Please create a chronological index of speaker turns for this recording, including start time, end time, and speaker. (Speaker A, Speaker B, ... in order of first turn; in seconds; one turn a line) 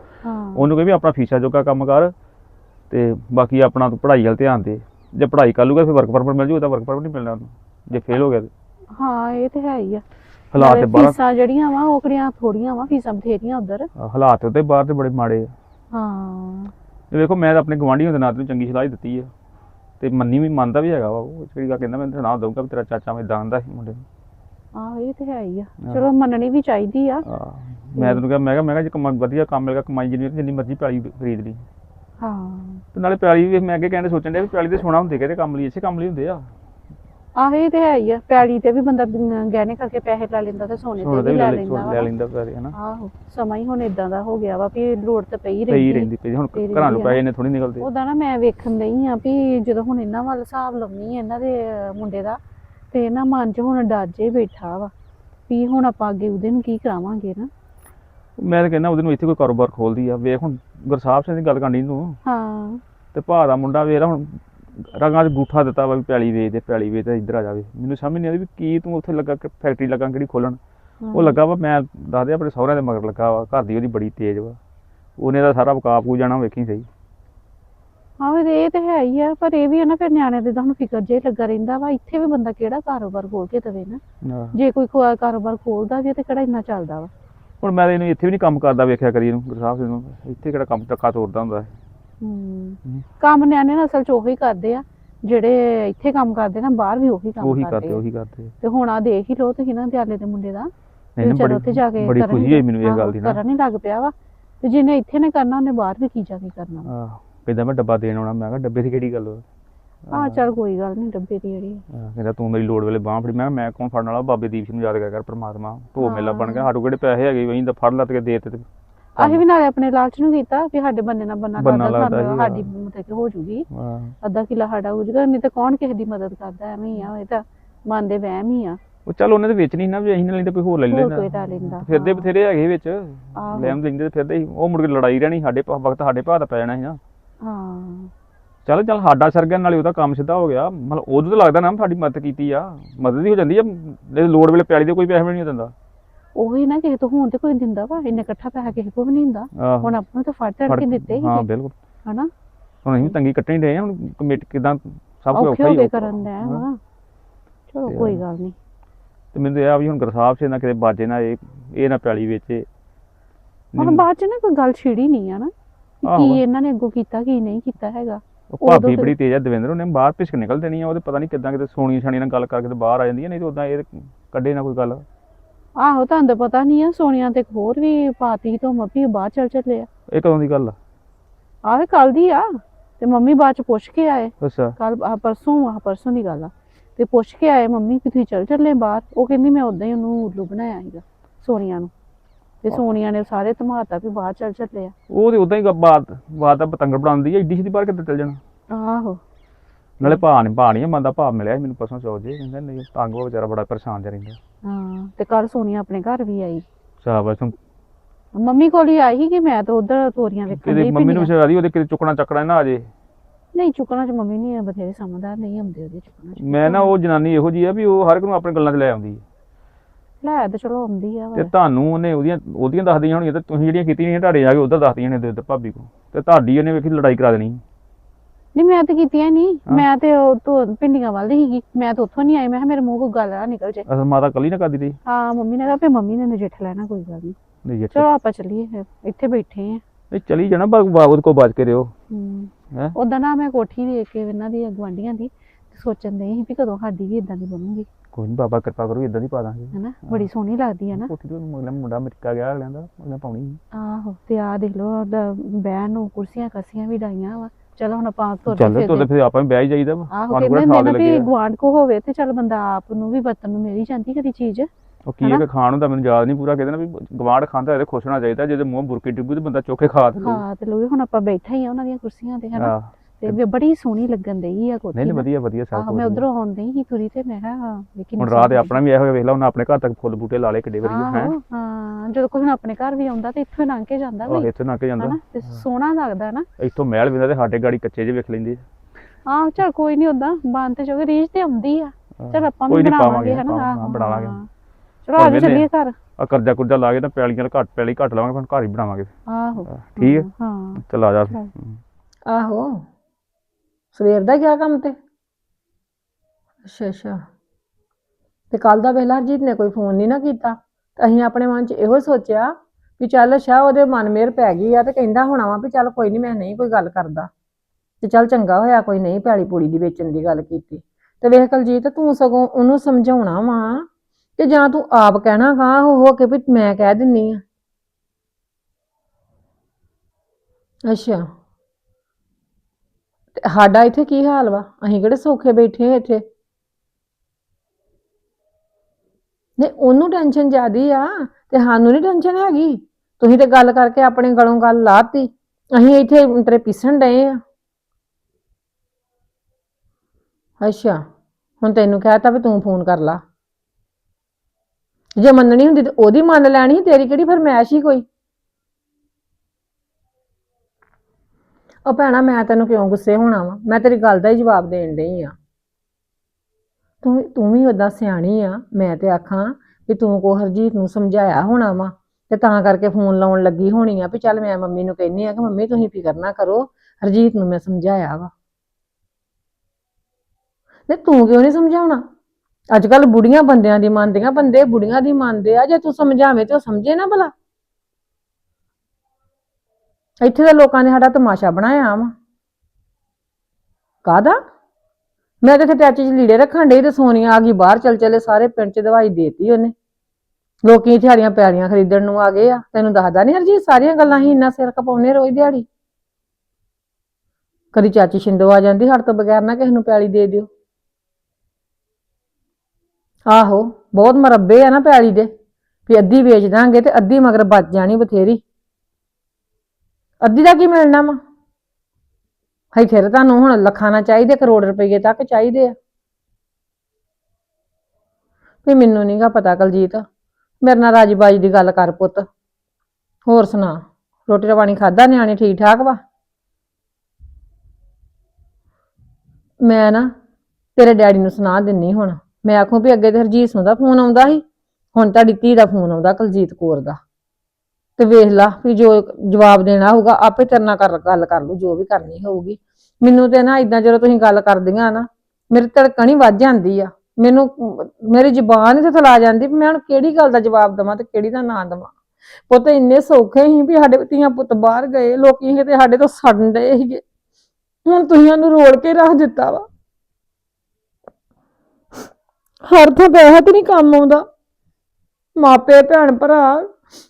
Speaker A: 0.2-0.7
Speaker B: 0.6-2.1
Speaker B: 2.9-8.5
Speaker A: 9.0-10.0
Speaker B: 10.5-11.2
Speaker A: 10.6-13.9
Speaker B: 14.0-15.5
Speaker A: 15.9-16.7
Speaker B: 17.1-19.3
Speaker B: 20.0-24.0
Speaker A: 24.8-27.2
Speaker B: 27.3-31.6
Speaker A: 32.2-32.8
Speaker B: 32.9-36.5
Speaker A: 37.4-42.1
Speaker B: 41.0-42.8
Speaker A: 42.8-47.2
Speaker B: 45.7-47.9
Speaker A: 47.8-52.4
Speaker A: 52.9-54.9
Speaker A: 55.5-57.5
Speaker B: 58.4-62.2
Speaker A: 62.3-62.8
Speaker B: 63.1-70.6
Speaker A: 71.0-71.4
Speaker B: 71.1-74.6
Speaker B: 75.2-76.9
Speaker A: 78.2-84.0
Speaker B: 84.2-84.6
Speaker A: 84.5-87.1
Speaker B: 87.6-91.7
Speaker A: 92.2-98.0
Speaker B: 97.4-98.5
Speaker A: 98.6-106.9
Speaker B: 101.2-103.4
Speaker B: 106.9-109.4
Speaker B: 110.1-110.4
Speaker A: 110.1-111.8
Speaker B: 111.9-118.7
Speaker A: 116.0-116.7
Speaker A: 119.2-123.7
Speaker B: 119.2-119.4
Speaker B: 121.6-122.7
Speaker B: 123.7-124.2
Speaker A: 124.2-128.8
Speaker B: 129.1-137.0
Speaker A: 130.9-132.3
Speaker A: 133.4-133.8
Speaker A: 137.4-138.1
Speaker B: 138.7-145.7
Speaker A: 146.4-151.5
Speaker B: 149.6-149.9
Speaker B: 150.7-151.8
Speaker A: 152.1-152.3
Speaker B: 152.8-156.6
Speaker A: 155.3-156.8
Speaker A: 157.7-158.6
Speaker B: 157.9-158.2
Speaker B: 159.3-162.7
Speaker B: 163.7-164.1
Speaker A: 163.8-169.1
Speaker B: 166.1-166.4
Speaker B: 168.5-175.1
Speaker A: 175.8-179.9
Speaker B: 180.1-180.8
Speaker A: 181.6-191.9
Speaker B: 184.4-184.8
Speaker A: 192.6-194.9
Speaker B: 195.1-198.4
Speaker A: 198.7-199.2
Speaker B: 200.0-204.4
Speaker A: 204.6-206.7
Speaker B: 207.0-207.6
Speaker A: 208.3-211.3
Speaker B: 210.6-212.9
Speaker A: 213.5-216.9
Speaker B: 216.4-219.2
Speaker A: 220.2-221.5
Speaker B: 221.3-227.6
Speaker A: 228.6-233.9
Speaker B: 233.9-235.0
Speaker A: 235.1-237.4
Speaker B: 237.7-238.1
Speaker A: 237.9-239.8
Speaker B: 240.1-241.9
Speaker A: 242.1-247.9
Speaker B: 248.1-250.3
Speaker A: 249.7-251.1
Speaker B: 250.9-253.6
Speaker A: 253.7-259.1
Speaker B: 258.5-261.3
Speaker A: 260.1-264.7
Speaker B: 265.1-270.4
Speaker A: 270.2-278.7
Speaker B: 272.6-273.4
Speaker B: 274.9-276.2
Speaker B: 278.2-281.3
Speaker A: 280.8-286.5
Speaker B: 284.3-285.6
Speaker B: 286.6-288.6
Speaker A: 289.3-294.5
Speaker B: 292.2-294.4
Speaker A: 295.1-296.0
Speaker B: 295.2-295.7
Speaker B: 296.2-299.1
Speaker A: 299.3-301.5
Speaker B: 299.7-301.8
Speaker C: 302.3-302.8
Speaker C: 303.9-305.0
Speaker C: 306.7-307.2
Speaker C: 308.5-317.3
Speaker C: 318.0-327.4
Speaker C: 330.9-331.2
Speaker C: 333.4-336.2
Speaker C: 339.6-347.4
Speaker C: 350.6-351.0
Speaker C: 351.6-353.2
Speaker C: 355.2-358.1
Speaker C: 361.9-365.4
Speaker C: 367.0-378.3
Speaker C: 380.9-382.0
Speaker C: 382.7-387.3
Speaker C: 390.2-392.1
Speaker C: 394.1-394.4
Speaker C: 395.4-399.7
Speaker C: 400.6-405.7
Speaker C: 407.7-410.5
Speaker C: 413.3-415.3
Speaker C: 415.9-418.4
Speaker C: 420.2-421.2
Speaker C: 422.7-425.8
Speaker C: 428.6-430.1
Speaker C: 430.6-432.3
Speaker C: 433.3-436.0
Speaker C: 439.6-440.1
Speaker C: 440.8-447.0
Speaker C: 448.0-461.9
Speaker C: 462.5-467.0
Speaker C: 467.9-469.7
Speaker C: 472.7-474.2
Speaker C: 475.4-476.7